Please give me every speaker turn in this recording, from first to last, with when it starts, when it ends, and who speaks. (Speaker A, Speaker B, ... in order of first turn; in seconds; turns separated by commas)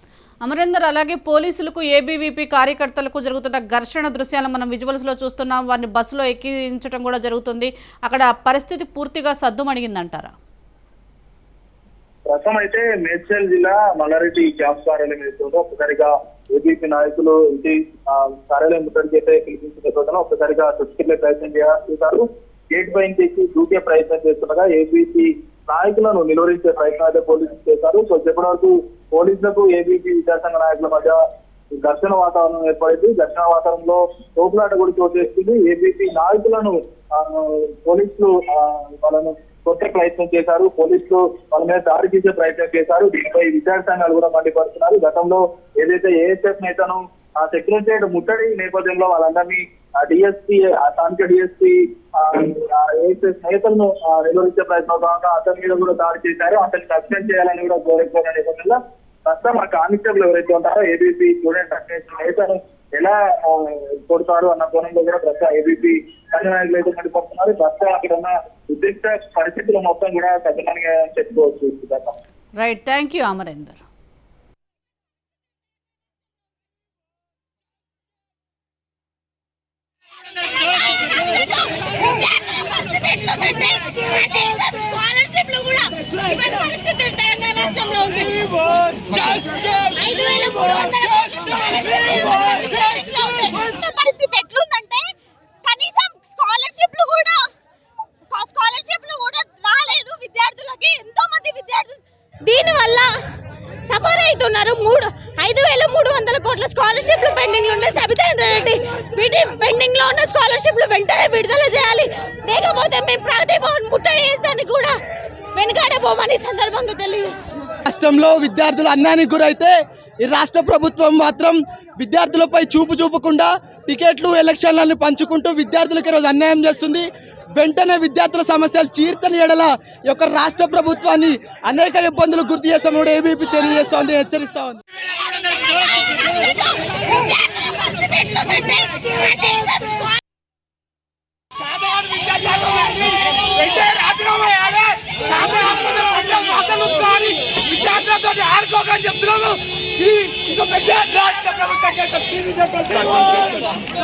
Speaker A: 0.4-10.3, Speaker B: 12.3-31.2, Speaker B: 31.8-72.2, Speaker A: 72.6-73.8, Speaker C: 81.3-95.1, Speaker C: 95.6-97.5, Speaker C: 98.3-103.1, Speaker C: 103.9-115.0, Speaker C: 115.5-117.7, Speaker D: 117.8-134.8, Speaker C: 136.1-140.2, Speaker C: 143.8-147.3, Speaker E: 145.8-147.0, Speaker E: 147.7-149.5, Speaker C: 147.9-149.4, Speaker E: 150.3-153.6, Speaker C: 150.7-151.6